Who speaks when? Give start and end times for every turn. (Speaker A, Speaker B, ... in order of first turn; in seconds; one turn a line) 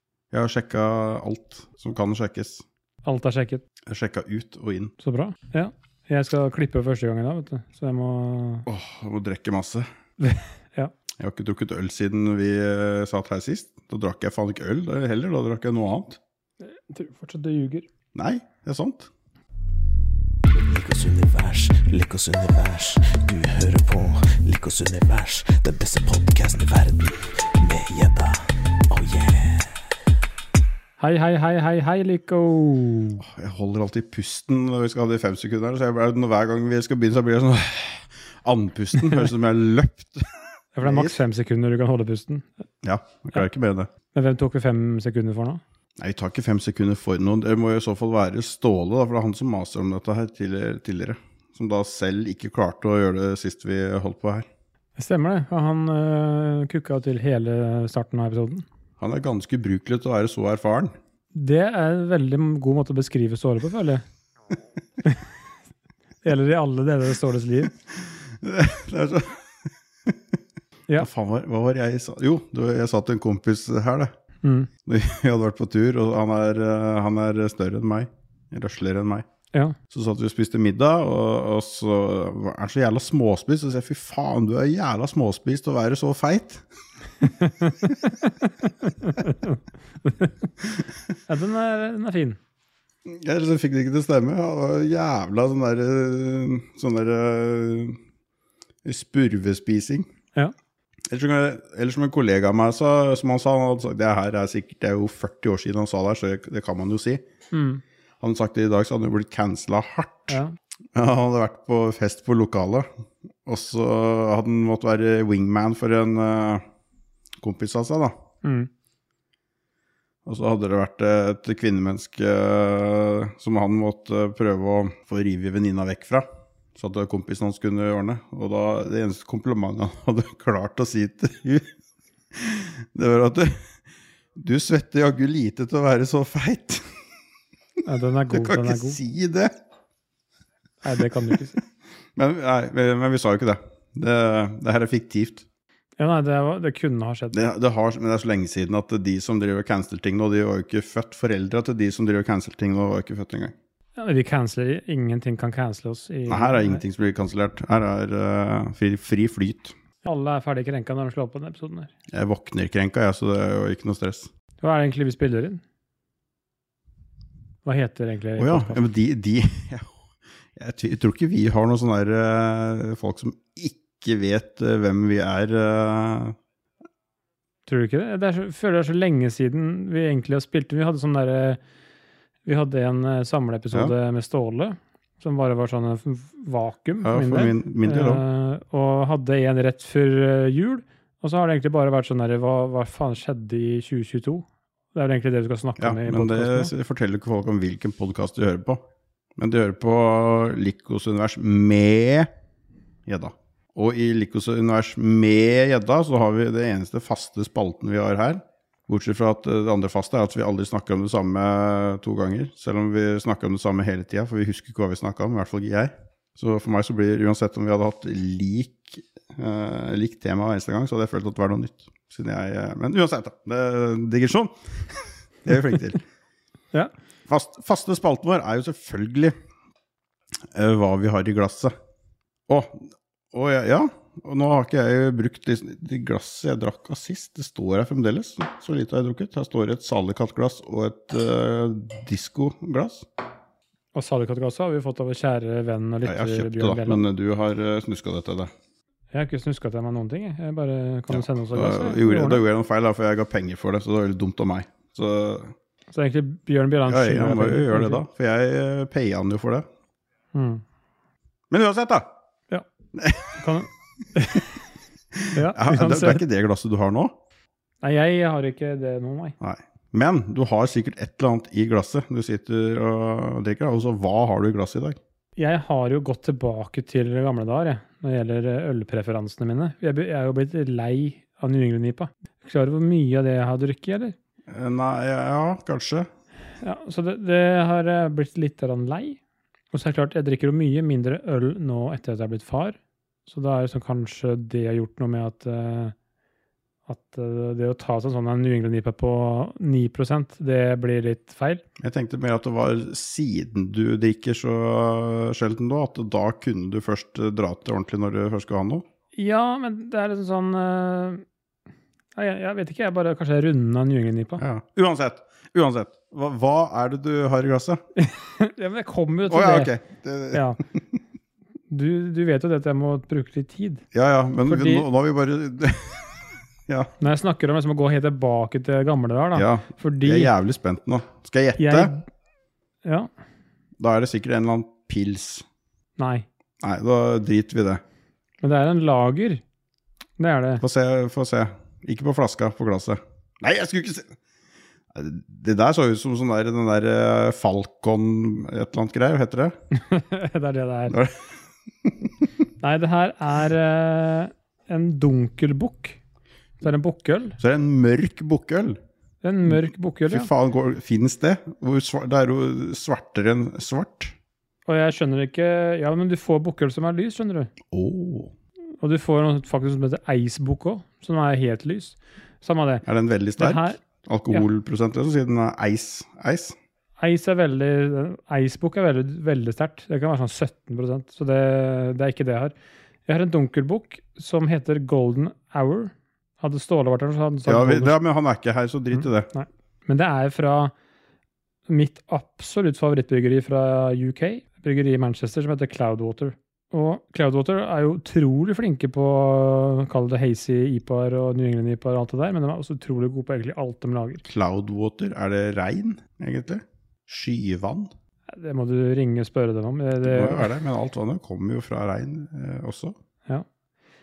Speaker A: 0.3-2.6
Speaker B: 3.0-3.6
Speaker A: 3.9-4.9
Speaker B: 5.0-8.7
Speaker A: 8.7-9.9
Speaker B: 10.2-10.9
Speaker A: 11.2-16.2
Speaker B: 16.6-17.9
Speaker A: 18.1-19.1
Speaker C: 20.5-29.8
Speaker B: 31.0-33.2
Speaker A: 33.2-40.3
Speaker B: 40.8-42.5
Speaker A: 40.8-41.2
Speaker A: 42.8-43.9
Speaker B: 44.1-45.6
Speaker A: 46.0-54.5
Speaker B: 55.0-58.7
Speaker A: 59.0-60.9
Speaker B: 61.3-64.0
Speaker B: 66.2-67.7
Speaker A: 68.4-69.4
Speaker A: 71.0-74.1
Speaker B: 74.4-74.7
Speaker A: 74.9-79.2
Speaker A: 79.9-86.6
Speaker B: 87.2-90.5
Speaker A: 87.9-88.2
Speaker B: 91.3-92.4
Speaker A: 93.1-98.0
Speaker A: 98.8-100.1
Speaker A: 101.1-107.2
Speaker B: 107.5-107.8
Speaker A: 108.2-110.4
Speaker A: 111.0-112.9
Speaker A: 113.5-116.6
Speaker A: 117.4-118.2
Speaker B: 118.4-118.7
Speaker A: 120.3-126.3
Speaker A: 126.8-131.7
Speaker A: 132.3-133.7
Speaker A: 134.4-136.9
Speaker B: 137.8-139.0
Speaker A: 138.3-139.5
Speaker B: 140.8-141.6
Speaker A: 142.2-145.4
Speaker B: 146.0-147.4
Speaker A: 147.3-153.5
Speaker B: 154.0-156.8
Speaker A: 156.3-159.8
Speaker B: 160.0-161.9
Speaker A: 162.1-164.3
Speaker B: 164.6-165.6
Speaker B: 167.7-168.8
Speaker A: 168.4-169.9
Speaker A: 170.6-176.4
Speaker B: 177.7-181.6
Speaker B: 182.4-196.7
Speaker A: 187.0-188.2
Speaker A: 195.8-198.8
Speaker A: 199.4-202.3
Speaker A: 203.1-226.0
Speaker A: 227.3-229.3
Speaker A: 230.5-231.7
Speaker A: 232.5-243.1
Speaker B: 243.9-247.0
Speaker A: 246.0-248.5
Speaker B: 249.1-252.4
Speaker A: 251.1-255.5
Speaker B: 255.9-258.0
Speaker A: 256.9-259.7
Speaker B: 260.3-260.6
Speaker A: 261.5-262.1
Speaker A: 262.9-263.6
Speaker B: 263.4-264.5
Speaker A: 265.2-267.1
Speaker B: 265.4-266.2
Speaker B: 267.8-269.4
Speaker A: 269.4-275.0
Speaker B: 275.4-284.1
Speaker A: 284.5-286.1
Speaker B: 286.6-289.2
Speaker B: 289.7-295.9
Speaker B: 296.9-301.6
Speaker A: 301.8-308.8
Speaker B: 309.1-311.2
Speaker B: 312.1-314.4
Speaker A: 314.4-317.8
Speaker B: 318.0-319.7
Speaker A: 319.3-320.4
Speaker B: 320.3-320.6
Speaker B: 321.7-323.8
Speaker A: 323.9-326.9
Speaker B: 324.5-324.9
Speaker B: 327.0-330.3
Speaker A: 329.4-331.9
Speaker B: 331.6-332.0
Speaker B: 332.8-333.1
Speaker A: 333.8-335.4
Speaker B: 336.0-336.3
Speaker A: 336.6-337.8
Speaker B: 338.4-339.4
Speaker B: 340.2-340.6
Speaker A: 340.6-344.2
Speaker A: 344.9-349.6
Speaker B: 349.7-351.0
Speaker A: 350.9-351.3
Speaker A: 351.9-352.3
Speaker B: 352.6-356.0
Speaker B: 356.6-357.4
Speaker A: 357.4-358.8
Speaker B: 359.2-360.3
Speaker A: 359.5-364.1
Speaker B: 364.7-367.5
Speaker A: 367.7-368.3
Speaker B: 368.8-372.9
Speaker A: 372.8-376.6
Speaker B: 373.4-373.8
Speaker B: 377.0-382.5
Speaker B: 383.1-388.0
Speaker A: 387.5-389.3
Speaker B: 388.9-390.7
Speaker B: 391.7-404.2
Speaker A: 404.2-407.9
Speaker B: 408.3-410.6
Speaker A: 410.0-412.9